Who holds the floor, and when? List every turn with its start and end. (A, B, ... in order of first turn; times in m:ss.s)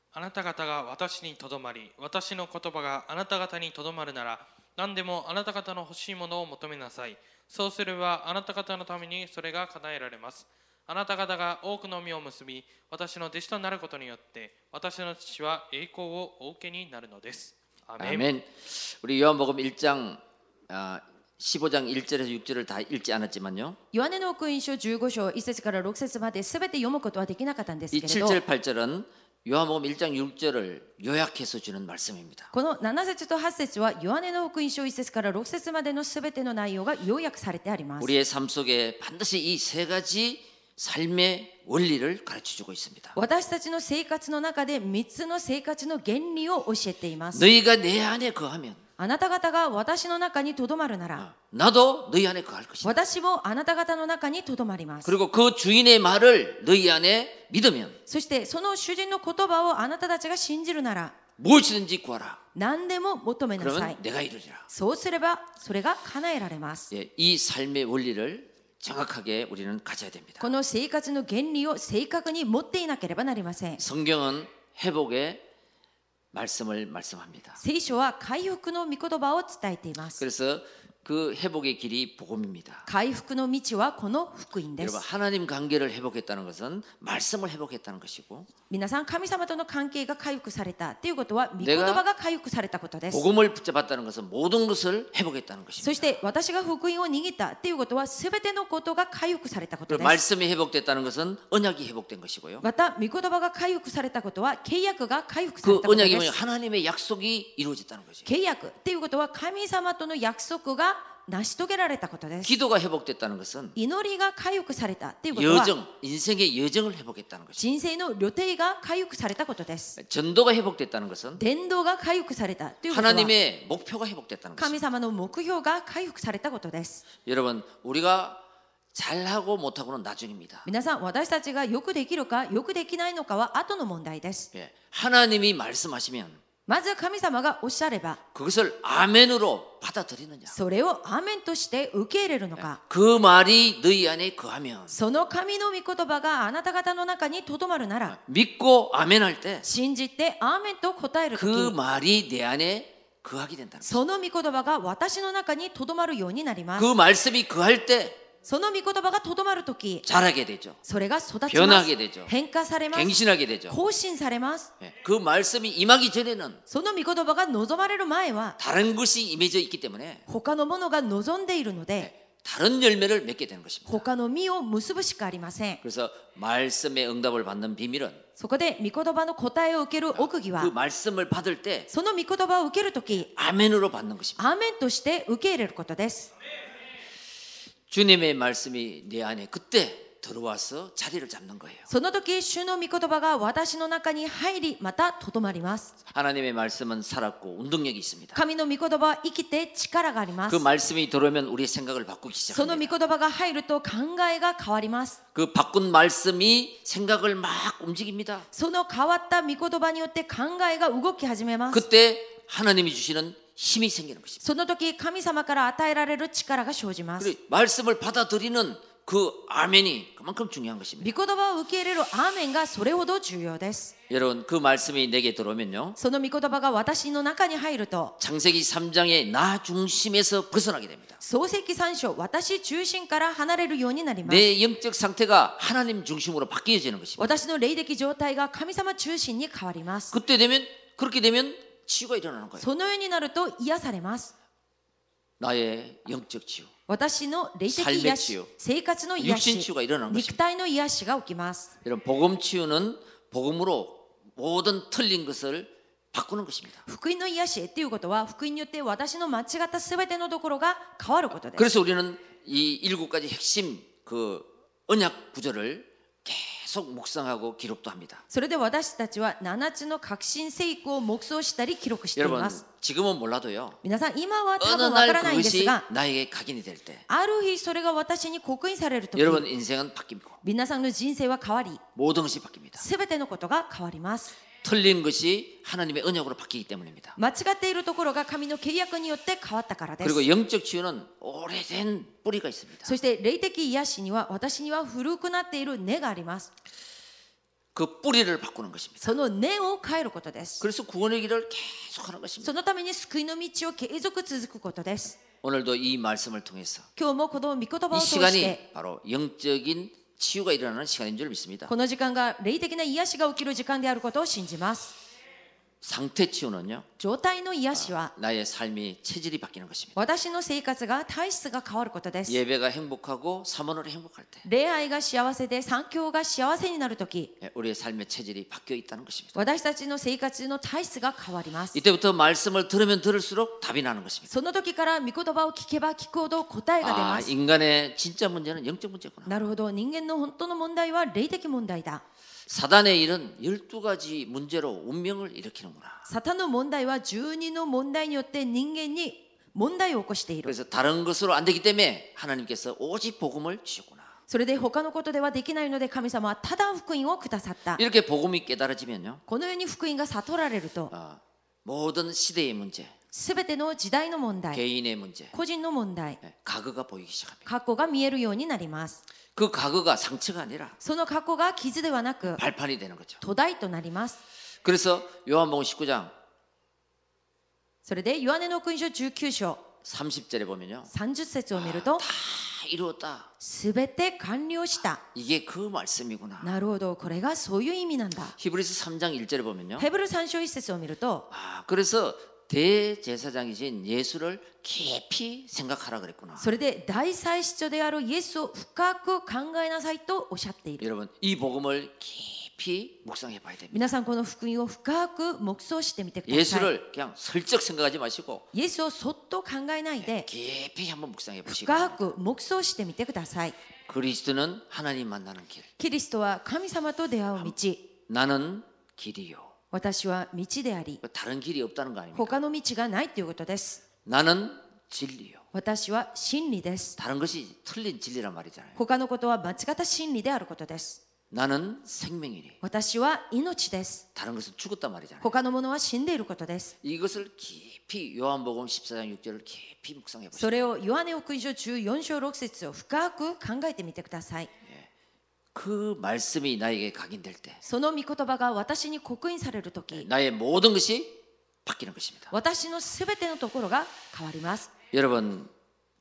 0:00.1-0:18.3 A
0:18.0-0:23.8 B
0:23.9-0:28.4 C
0:27.9-0:32.5 B
0:32.5-0:38.1 C
0:38.0-0:43.2 B
0:43.1-0:47.5 C
0:47.3-0:48.8 B
0:49.0-0:51.2 C
0:51.2-0:52.9 B
0:52.8-0:55.1 C
0:55.0-0:58.0 B
0:58.1-1:01.2 C
1:01.4-1:02.4 B
1:02.5-1:04.0 C
1:03.6-1:04.7 B
1:04.7-1:06.9 C
1:06.9-1:10.5 B
1:10.4-1:13.8 C
1:13.8-1:15.4 B
1:16.3-1:17.6 B
1:17.6-1:20.2 C
1:20.2-1:22.9 B
1:22.8-1:25.0 C
1:24.8-1:28.5 B
1:28.7-1:33.2 C
1:31.6-1:32.0 B
1:33.1-1:36.2 B
1:35.8-1:40.2 C
1:39.9-1:42.6 B
1:42.6-1:46.3 C
1:45.6-1:48.3 B
1:48.2-1:52.5 C
1:52.4-1:53.8 B
1:53.8-1:55.7 C
1:55.3-1:57.6 B
1:57.6-2:00.0 C
2:00.0-2:01.4 B
2:01.4-2:03.3 C
2:02.9-2:04.8 B
2:04.6-2:07.0 C
2:07.2-2:10.7 B
2:10.6-2:14.5 C
2:14.5-2:16.4 B
2:16.7-2:18.2 C
2:18.3-2:20.6 B
2:20.5-2:22.8 C
2:22.6-2:25.0 B
2:24.9-2:28.2 C
2:28.1-2:29.7 B
2:29.6-2:31.7 C
2:31.3-2:34.0 B
2:33.8-2:36.9 C
2:36.8-2:38.2 B
2:38.4-2:40.0 C
2:40.0-2:40.8 B
2:40.8-2:43.2 C
2:41.5-2:42.3 B
2:42.9-2:43.8 B
2:43.7-2:44.7 C
2:44.8-2:46.6 B
2:46.7-2:48.6 C
2:48.6-2:50.2 B
2:50.3-2:52.1 C
2:52.0-2:54.0 B
2:53.9-2:55.8 C
2:55.8-2:58.2 B
2:58.4-3:00.7 C
3:00.1-3:01.9 B
3:01.9-3:03.3 C
3:03.1-3:04.4 B
3:04.4-3:06.3 C
3:07.9-3:11.9 B
3:11.9-3:15.9 C
3:16.1-3:18.4 B
3:18.3-3:20.6 C
3:20.5-3:23.0 B
3:22.5-3:25.2 C
3:25.3-3:28.5 B
3:28.5-3:31.8 C
3:31.7-3:34.4 B
3:34.4-3:37.3 C
3:37.2-3:41.2 B
3:41.0-3:43.9 C
3:44.1-3:46.0 B
3:46.0-3:48.1 C
3:48.2-3:51.2 B
3:51.2-3:54.5 C
3:54.2-3:57.3 B
3:57.2-4:00.2 C
4:00.1-4:02.7 B
4:02.6-4:04.3 C
4:05.4-4:06.7 B
4:06.9-4:11.7 C
4:07.7-4:08.5 B
4:09.2-4:10.4 B
4:11.8-4:16.8 B
4:16.8-4:21.7 C
4:21.5-4:28.2 B
4:28.3-4:32.6 C
4:32.2-4:33.8 B
4:33.8-4:35.8 C
4:34.6-4:37.1 B
4:37.1-4:39.5 C
4:39.1-4:40.4 B
4:40.4-4:41.8 C
4:42.0-4:42.8 B
4:42.8-4:44.4 C
4:44.6-4:47.2 B
4:47.2-4:50.2 C
4:50.0-4:52.9 B
4:52.8-4:56.5 C
4:57.7-4:59.1 B
4:59.0-5:00.6 C
5:00.6-5:02.5 B
5:02.4-5:05.2 C
5:05.4-5:06.9 B
5:07.0-5:08.6 C
5:07.9-5:11.7 B
5:11.7-5:15.0 C
5:15.8-5:16.9 B
5:17.0-5:18.1 C
5:17.7-5:20.0 B
5:20.0-5:22.4 C
5:22.2-5:24.5 B
5:24.4-5:27.3 C
5:27.4-5:29.3 B
5:29.3-5:31.8 C
5:31.7-5:34.3 B
5:34.3-5:37.3 C
5:36.8-5:39.4 B
5:39.2-5:42.0 C
5:42.5-5:46.1 B
5:46.1-5:50.5 C
5:50.4-5:54.1 B
5:54.3-5:57.8 C
5:57.8-5:59.2 B
5:59.3-6:00.9 C
6:00.9-6:02.9 B
6:03.1-6:04.6 C
6:04.5-6:05.3 B
6:05.3-6:06.2 C
6:06.2-6:07.5 B
6:07.4-6:09.0 C
6:09.3-6:10.8 B
6:10.8-6:12.4 C
6:12.3-6:13.2 B
6:13.2-6:14.2 C
6:14.6-6:16.1 B
6:17.8-6:19.6 C
6:19.8-6:20.9 B
6:20.9-6:22.0 C
6:21.5-6:23.3 B
6:23.4-6:25.0 C
6:25.1-6:26.5 B
6:26.4-6:28.4 C
6:28.4-6:29.9 B
6:29.8-6:31.3 C
6:31.3-6:36.5 B
6:36.4-6:40.8 C
6:40.8-6:43.9 B
6:43.7-6:46.7 C
6:46.3-6:48.5 B
6:48.5-6:50.3 C
6:50.0-6:52.1 B
6:51.5-6:53.5 C
6:53.9-6:55.7 B
6:55.8-6:57.9 C
6:58.1-6:59.5 B
6:59.7-7:01.0 C
7:01.0-7:02.4 B
7:02.1-7:03.8 C
7:04.0-7:05.4 B
7:05.5-7:07.0 C
7:07.0-7:08.8 B
7:08.8-7:11.0 C
7:11.3-7:12.6 B
7:12.6-7:14.0 C
7:14.1-7:15.3 B
7:15.2-7:16.7 C
7:16.8-7:20.7 B
7:20.3-7:24.5 C
7:25.5-7:27.6 B
7:27.6-7:30.1 C
7:29.9-7:32.3 B
7:32.3-7:34.7 C
7:34.9-7:35.5 B